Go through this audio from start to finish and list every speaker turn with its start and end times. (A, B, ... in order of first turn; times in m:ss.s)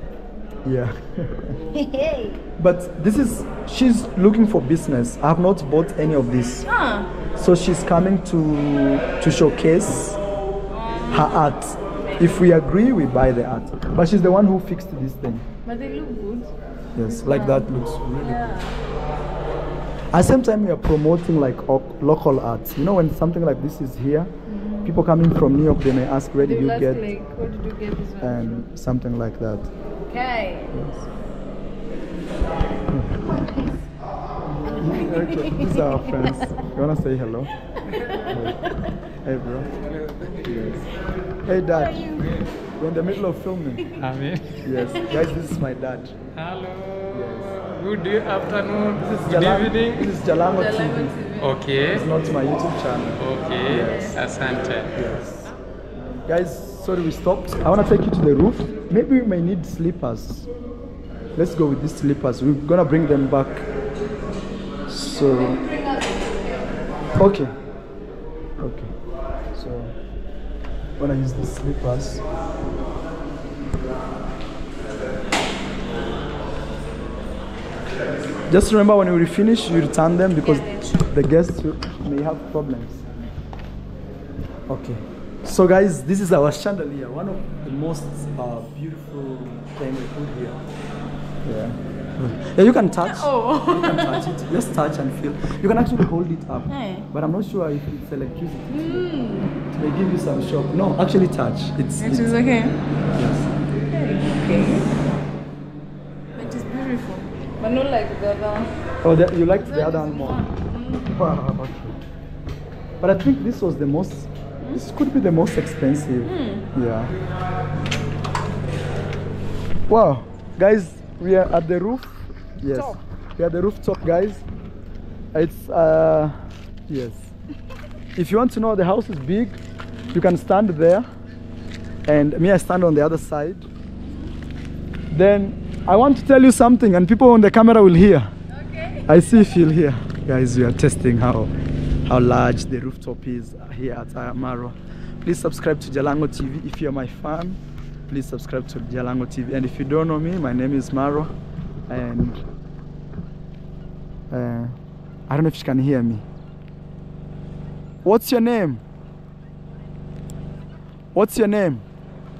0:00.6-0:01.6 A
0:01.7-0:02.4 B
0:02.6-0:06.7 A
0:06.6-0:07.1 B
0:07.4-0:10.2 A
0:10.7-0:12.5 B
0:11.1-0:15.4 A
0:15.6-0:18.8 B
0:16.9-0:18.5 A
0:20.1-0:24.3 A
0:24.5-0:24.9 B
0:24.8-0:27.1 A
0:26.4-0:28.6 B
0:28.2-0:29.7 A
0:30.0-0:30.8 B
0:30.7-0:31.0 A
0:32.9-0:33.2 A
0:33.3-0:33.7 B
0:34.5-0:37.5 A
0:34.6-0:36.4 B
0:37.9-0:38.9 B
0:38.2-0:38.6 A
0:39.2-0:39.7 A
0:40.4-0:40.8 A
0:41.4-0:42.2 A
0:41.6-0:42.4 B
0:42.8-0:43.9 A
0:44.0-0:44.6 C
0:44.6-0:46.1 A
0:44.7-0:45.3 B
0:46.4-0:50.1 C
0:47.1-0:47.6 A
0:49.0-0:51.2 A
0:50.4-0:51.7 B
0:51.4-0:52.1 C
0:51.8-0:54.2 A
0:53.2-0:55.0 C
0:53.8-0:54.2 B
0:54.9-0:55.5 A
0:56.2-1:00.5 A
1:01.3-1:03.7 A
1:04.9-1:05.6 A
1:05.0-1:06.9 B
1:07.1-1:07.5 A
1:08.6-1:08.9 A
1:09.5-1:09.9 A
1:11.0-1:12.2 A
1:18.5-1:23.0 A
1:20.4-1:21.1 B
1:24.7-1:30.6 A
1:31.4-1:39.1 A
1:33.1-1:34.2 B
1:36.7-1:37.1 B
1:38.7-1:39.6 B
1:39.7-1:42.4 A
1:42.0-1:42.8 B
1:43.1-1:43.5 A
1:43.9-1:44.9 B
1:46.3-1:48.8 B
1:49.0-1:50.4 A
1:49.5-1:51.2 B
1:51.1-1:52.0 A
1:53.0-1:57.1 A
1:56.2-1:56.7 B
1:59.9-2:04.4 A
2:02.7-2:03.0 B
2:05.3-2:07.3 A
2:08.2-2:09.6 A
2:09.9-2:10.2 B
2:10.1-2:11.0 A
2:12.0-2:13.7 A
2:15.1-2:18.3 A
2:18.5-2:19.5 B
2:19.1-2:21.5 A
2:22.0-2:31.3 A
2:31.9-2:32.4 A
2:34.3-2:34.8 A
2:35.3-2:36.2 A
2:38.0-2:38.8 A
2:41.1-2:41.8 A